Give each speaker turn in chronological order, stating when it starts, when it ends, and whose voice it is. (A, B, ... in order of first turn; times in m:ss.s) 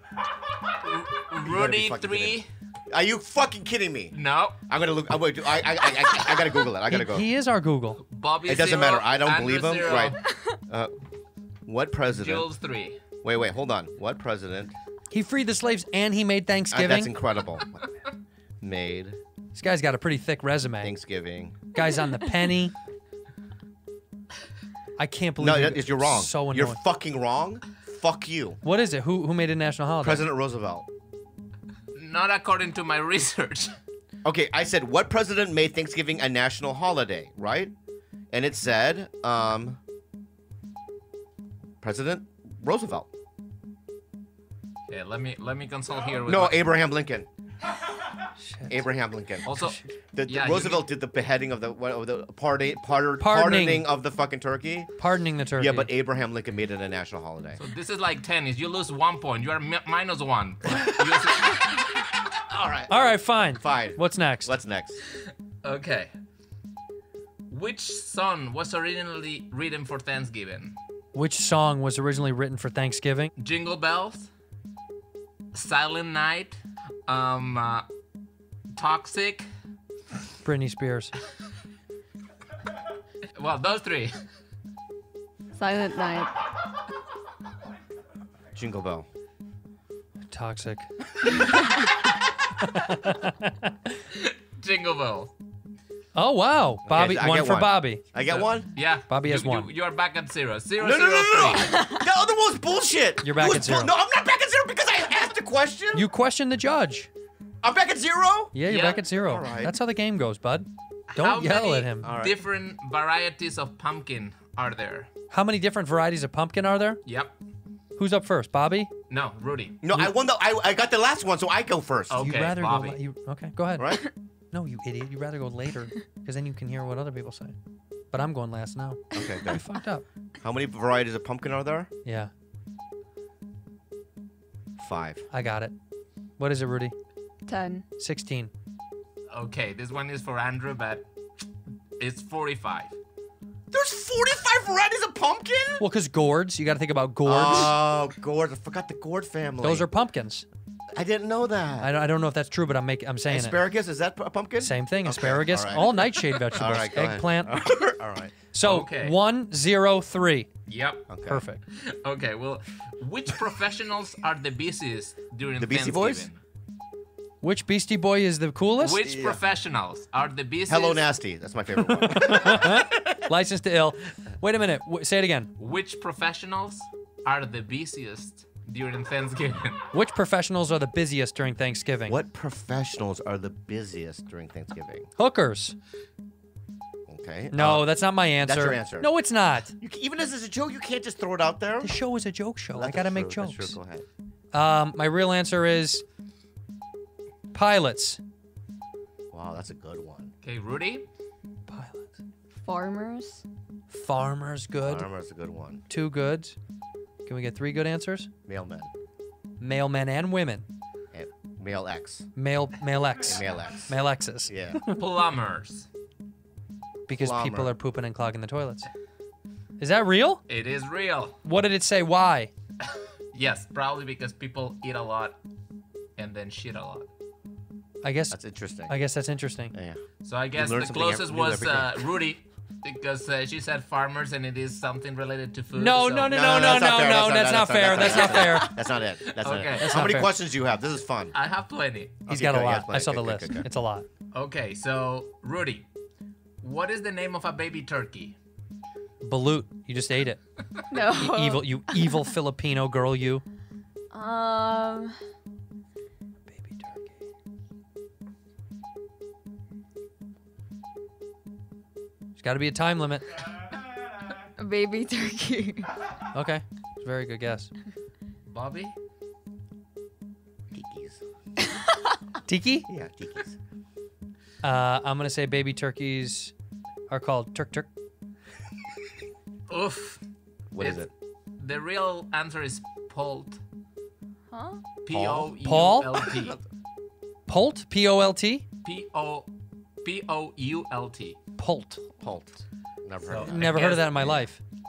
0:00.7-0:02.5 A
0:01.4-0:04.1 B
0:04.1-0:04.6 A
0:04.6-0:07.3 B
0:06.9-0:08.0 C
0:08.0-0:10.2 A
0:08.4-0:10.9 B
0:11.7-0:12.5 B
0:12.1-0:13.0 A
0:13.2-0:14.7 B
0:15.1-0:17.1 C
0:16.7-0:17.8 B
0:18.6-0:19.2 B
0:19.5-0:20.9 C
0:20.8-0:21.6 B
0:21.7-0:22.7 C
0:25.0-0:26.8 C
0:25.4-0:28.6 B
0:28.6-0:30.3 C
0:30.0-0:30.9 B
0:31.9-0:33.8 A
0:34.2-0:37.7 B
0:38.3-0:39.8 B
0:41.8-0:43.1 B
0:44.9-0:46.6 A
0:46.2-0:47.3 B
0:48.4-0:48.8 C
0:48.7-0:54.9 B
0:49.4-0:50.8 A
0:49.6-0:49.9 C
0:53.2-0:53.8 C
0:55.0-0:55.9 C
0:55.6-0:57.6 B
0:57.6-1:01.9 A
1:02.3-1:05.0 B
1:02.9-1:04.5 C
1:05.6-1:06.1 A
1:07.5-1:10.8 A
1:11.1-1:13.3 C
1:13.4-1:14.3 A
1:15.5-1:17.9 A
1:18.7-1:19.5 A
1:20.4-1:21.1 C
1:23.3-1:24.2 A
1:25.5-1:26.4 D
1:28.5-1:29.1 B
1:30.3-1:30.9 C
1:32.6-1:33.9 C
1:34.1-1:35.3 A
1:36.1-1:38.0 C
1:36.8-1:38.7 B
1:38.2-1:41.8 A
1:39.1-1:39.7 C
1:40.8-1:46.1 B
1:41.6-1:42.0 D
1:43.2-1:43.9 C
1:45.9-1:47.1 C
1:47.6-1:48.6 B
1:48.5-1:52.1 C
1:48.7-1:49.0 A
1:49.2-1:49.8 B
1:51.1-1:55.1 A
1:52.0-1:52.4 B
1:55.3-1:57.0 C
1:57.0-1:57.3 A
1:58.0-1:58.9 C
1:59.1-1:59.8 A
1:59.8-2:02.4 B
2:02.1-2:03.0 A
2:02.2-2:07.5 C
2:03.8-2:04.1 B
2:08.1-2:10.0 C
2:09.1-2:09.7 B
2:10.4-2:11.9 B
2:12.0-2:12.3 C
2:14.8-2:15.3 B
2:15.3-2:15.7 C
2:16.4-2:16.9 C
2:17.4-2:17.8 D
2:18.0-2:18.5 C
2:19.3-2:21.1 A
2:22.0-2:22.9 A
2:23.7-2:25.8 B
2:25.8-2:27.8 C
2:27.2-2:29.9 B
2:29.6-2:30.4 C
2:30.9-2:32.0 B
2:31.8-2:33.6 C
2:33.3-2:35.9 B
2:34.6-2:37.6 C
2:35.9-2:36.6 A
2:36.5-2:38.4 B
2:38.5-2:40.5 C
2:38.6-2:39.2 A
2:40.7-2:41.1 A
2:41.1-2:41.4 B
2:41.3-2:41.6 C
2:41.6-2:46.4 A
2:45.6-2:46.3 B
2:47.4-2:49.0 C
2:48.8-2:51.1 A
2:49.0-2:49.4 B
2:50.7-2:53.2 B
2:51.8-2:55.5 C
2:55.6-2:59.9 A
2:59.9-3:02.2 C
3:02.1-3:05.1 B
3:05.2-3:05.8 C
3:07.1-3:09.1 B
3:07.5-3:09.7 C
3:09.8-3:12.0 B
3:11.8-3:13.8 C
3:12.8-3:14.0 B
3:14.5-3:16.0 C
3:17.5-3:18.2 C
3:19.3-3:20.3 B
3:20.4-3:21.1 A
3:21.7-3:22.1 C
3:22.6-3:23.4 D
3:23.9-3:25.1 C
3:24.8-3:25.8 B
3:25.9-3:26.6 C
3:27.2-3:28.3 C
3:28.4-3:28.9 B
3:29.6-3:30.6 C
3:31.1-3:32.3 B
3:32.4-3:34.9 C
3:33.2-3:34.0 B
3:34.5-3:34.8 B
3:34.9-3:35.9 A
3:37.1-3:38.9 C
3:37.1-3:37.7 B
3:39.8-3:40.4 C
3:40.5-3:41.4 A
3:41.4-3:42.5 C
3:43.3-3:45.4 A
3:46.2-3:47.1 A
3:48.0-3:49.7 C
3:48.3-3:48.9 B
3:49.7-3:50.0 B
3:50.2-3:56.4 A
3:50.5-3:52.1 B
3:55.7-3:58.8 C
3:56.3-4:01.3 B
3:58.0-3:58.4 A
3:59.3-4:00.0 A
3:59.8-4:00.3 C
4:01.3-4:02.2 A
4:02.3-4:03.6 B
4:02.3-4:04.0 C
4:04.3-4:05.9 A
4:06.6-4:08.4 A
4:09.2-4:10.4 C
4:10.9-4:12.3 D
4:11.0-4:13.4 C
4:14.1-4:15.2 D
4:16.5-4:17.2 C
4:22.4-4:23.4 C
4:24.6-4:26.0 D
4:26.3-4:27.7 C
4:28.4-4:28.9 A
4:30.7-4:31.2 B
4:32.5-4:32.9 C
4:32.9-4:33.6 B
4:34.6-4:36.5 C
4:37.1-4:37.9 C
4:39.7-4:40.2 A
4:40.7-4:41.1 B
4:40.8-4:43.6 A
4:44.5-4:44.8 D
4:45.0-4:46.6 A
4:45.1-4:45.6 B
4:45.6-4:46.1 C
4:46.2-4:46.6 B
4:47.5-4:48.6 C
4:48.8-4:51.4 A
4:51.6-4:52.0 C
4:52.2-4:54.5 B
4:53.2-4:54.1 A
4:53.3-4:54.6 C